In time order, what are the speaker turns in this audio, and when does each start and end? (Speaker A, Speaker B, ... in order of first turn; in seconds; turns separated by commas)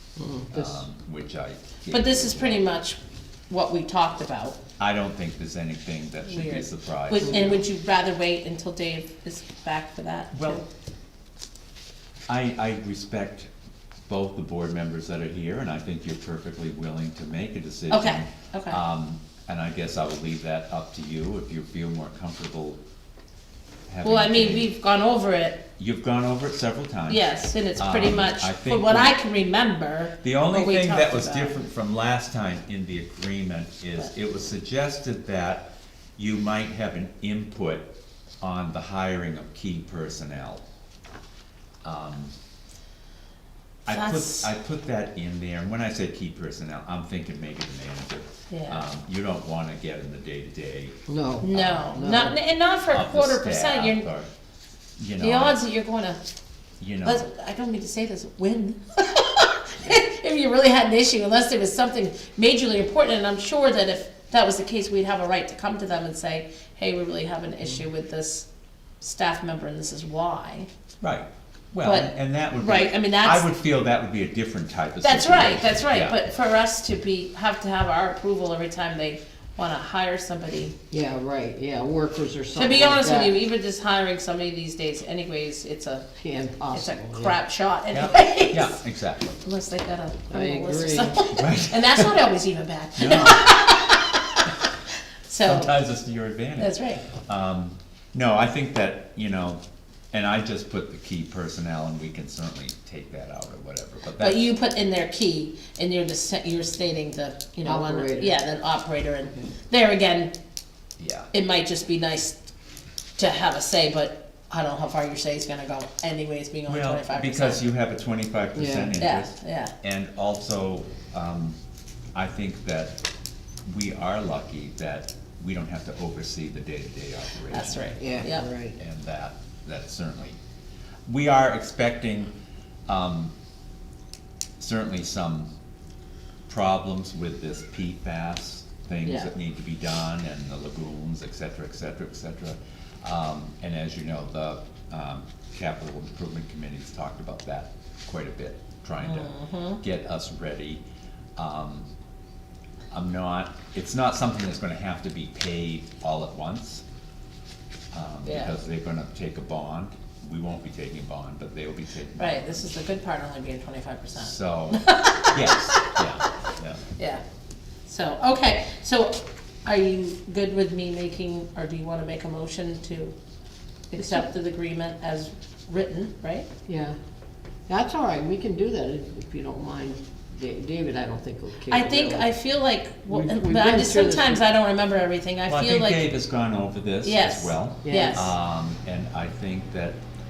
Speaker A: 0.2-0.8, Speaker B: 0.5-2.7, Speaker C: 1.9-3.0, Speaker C: 3.5-4.6, Speaker B: 4.8-7.6, Speaker C: 6.3-10.7, Speaker B: 10.3-10.6, Speaker B: 12.3-13.5, Speaker B: 14.1-22.8, Speaker C: 17.9-18.8, Speaker B: 23.9-24.7, Speaker C: 24.0-25.6, Speaker B: 25.8-29.1, Speaker C: 27.1-31.6, Speaker B: 30.2-40.6, Speaker B: 41.8-42.3, Speaker B: 43.9-51.0, Speaker C: 43.9-44.5, Speaker C: 48.5-48.9, Speaker A: 51.1-52.4, Speaker C: 51.4-54.1, Speaker B: 51.5-51.9, Speaker B: 52.9-54.3, Speaker B: 55.0-55.6, Speaker C: 55.2-56.2, Speaker B: 56.8-57.3, Speaker C: 57.0-68.5, Speaker C: 69.0-70.7, Speaker B: 71.0-76.2, Speaker C: 71.8-73.5, Speaker C: 75.0-80.8, Speaker A: 80.9-83.4, Speaker C: 82.5-86.1, Speaker A: 86.2-87.4, Speaker C: 86.7-88.8, Speaker B: 87.9-89.4, Speaker C: 89.4-94.5, Speaker A: 90.3-91.3, Speaker B: 91.3-92.1, Speaker B: 93.0-93.8, Speaker C: 95.2-95.8, Speaker B: 95.4-104.5, Speaker C: 96.6-97.0, Speaker C: 104.2-110.3, Speaker A: 107.6-108.4, Speaker B: 111.0-111.3, Speaker C: 111.3-112.4, Speaker C: 113.2-117.6, Speaker B: 116.7-121.6, Speaker A: 118.5-119.0, Speaker C: 119.0-119.7, Speaker B: 122.1-123.0, Speaker B: 123.6-130.4, Speaker C: 127.5-128.5, Speaker A: 128.0-128.8, Speaker B: 131.1-132.3, Speaker B: 132.9-133.3, Speaker B: 134.6-135.5, Speaker B: 136.5-150.8, Speaker C: 149.0-149.8, Speaker B: 151.4-151.9, Speaker B: 152.9-156.8, Speaker B: 157.9-162.7, Speaker C: 158.2-158.6, Speaker C: 162.2-166.0, Speaker B: 164.1-166.8, Speaker C: 167.0-167.2, Speaker C: 167.8-173.1, Speaker C: 173.9-176.5, Speaker A: 174.0-174.2, Speaker A: 176.7-177.0, Speaker A: 177.7-182.3, Speaker C: 181.7-186.1, Speaker A: 183.1-184.4, Speaker B: 185.5-190.0, Speaker C: 187.0-188.3, Speaker A: 187.8-188.3